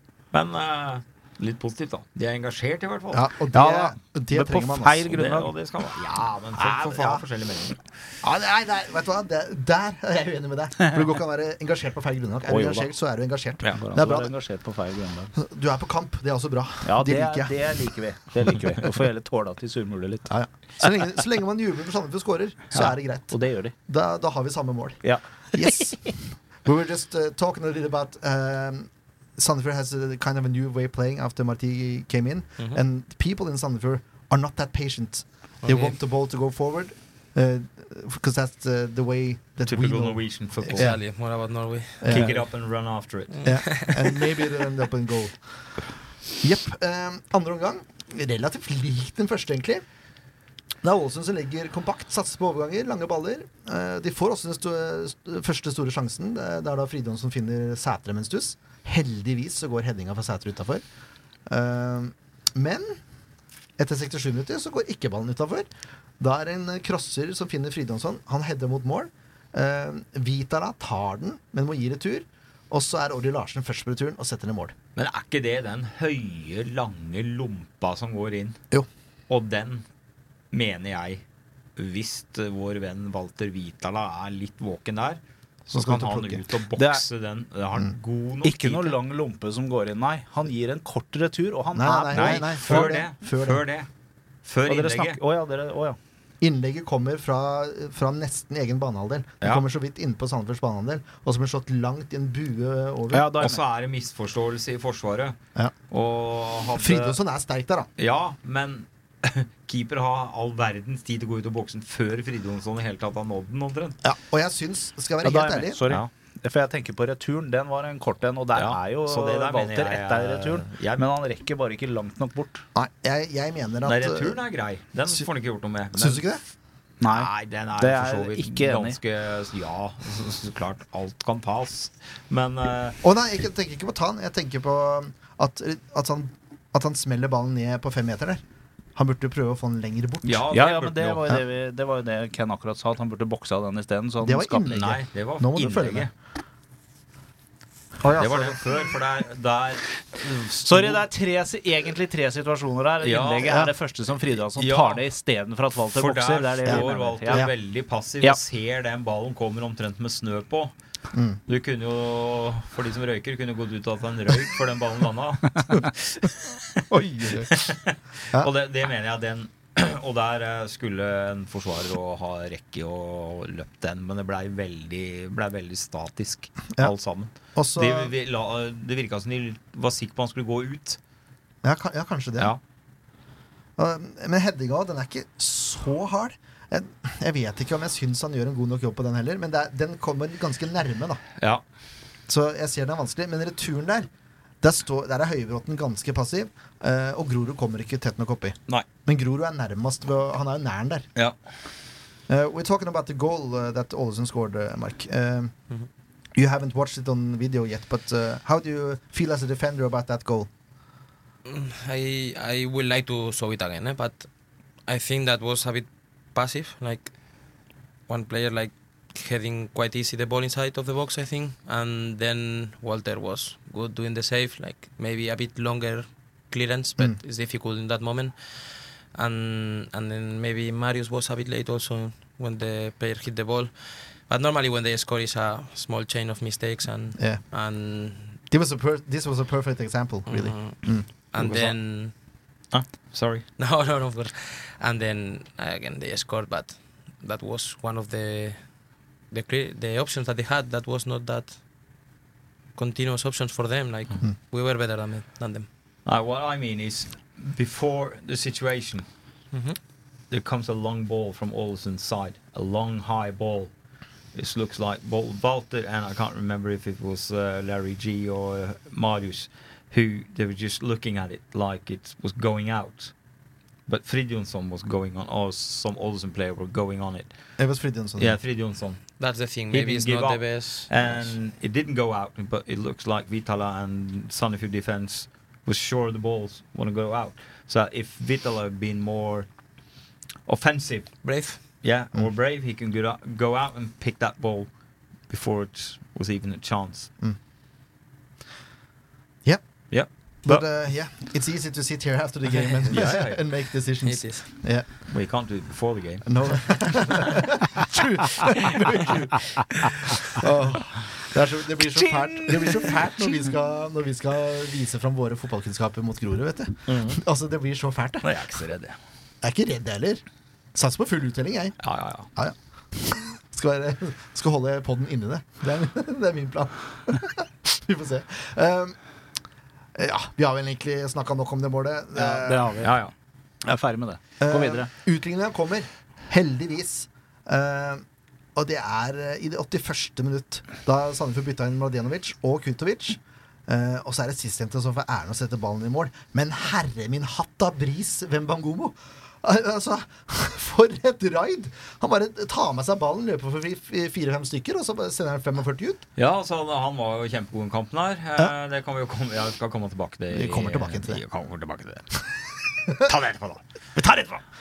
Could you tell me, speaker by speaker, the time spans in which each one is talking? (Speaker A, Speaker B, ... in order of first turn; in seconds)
Speaker A: 0.3-3.3, 5.1-7.8, 39.6-41.0, 42.0-43.4, 75.0-78.6, 79.3-79.8, 80.5-81.2, 81.8-89.0, 92.1-93.9, 94.4-95.2, 103.4-105.4, 105.9-107.2, 108.0-114.0, 118.5-121.0, 123.8-126.3, 127.0-133.0, 140.2-141.3, 144.7-146.1, 148.2-151.0, 153.0-153.7, 154.3-155.0, 155.9-160.7, 161.5-166.8, 167.4-181.0, 191.4-191.6, 242.7-243.4, 256.1-259.0, 260.3-263.7, 264.3-273.1, 273.9-277.3, 278.2-289.5, 290.4-294.7, 295.3-297.1, 299.9-300.6, 302.9-303.4, 305.1-306.9, 316.9-317.2, 318.2-318.9, 321.8-322.3, 332.8-333.1, 356.1-362.3, 362.8-364.4
Speaker B: 3.1-5.1, 6.5-7.2, 8.2-14.3, 15.3-17.5, 20.3-41.0, 42.0-42.4, 43.4-45.4, 46.4-49.8, 50.8-60.8, 61.5-63.0, 63.8-65.7, 66.2-74.7, 85.7-86.4, 91.7-93.6, 96.4-103.3, 106.8-107.9, 114.0-115.8, 122.7-124.4, 125.9-126.4, 133.0-138.4, 138.9-140.5, 144.2-146.1, 148.0-148.6, 156.7-157.5, 161.1-161.4, 166.9-167.5, 177.5-178.1, 181.6-182.5, 183.8-191.2, 192.3-194.1, 194.6-201.1, 202.3-205.5, 206.3-210.5, 237.2-237.4, 238.5-241.7, 277.6-278.4, 299.4-304.9, 306.2-318.3, 319.4-320.2, 320.7-321.8, 322.3-328.9, 329.9-332.8, 334.4-338.0, 338.5-356.1, 360.3-361.2
Speaker C: 3.5-5.5, 12.5-12.9, 13.7-15.3, 16.8-20.9, 22.7-23.7, 25.0-26.1, 86.8-87.0, 88.4-93.0, 94.7-96.0, 103.1-103.6, 115.2-122.6, 127.0-128.9, 140.5-144.8, 150.6-157.5, 311.9-313.5, 332.1-333.0, 333.6-334.9
Speaker D: 35.6-36.0, 40.7-42.2, 43.3-44.1, 211.4-214.3, 214.8-217.2, 218.1-238.4, 240.3-242.1, 243.6-248.8, 249.3-251.6, 252.7-255.7, 259.5-259.8, 279.2-281.3, 291.2-291.6, 302.5-303.1, 304.0-304.4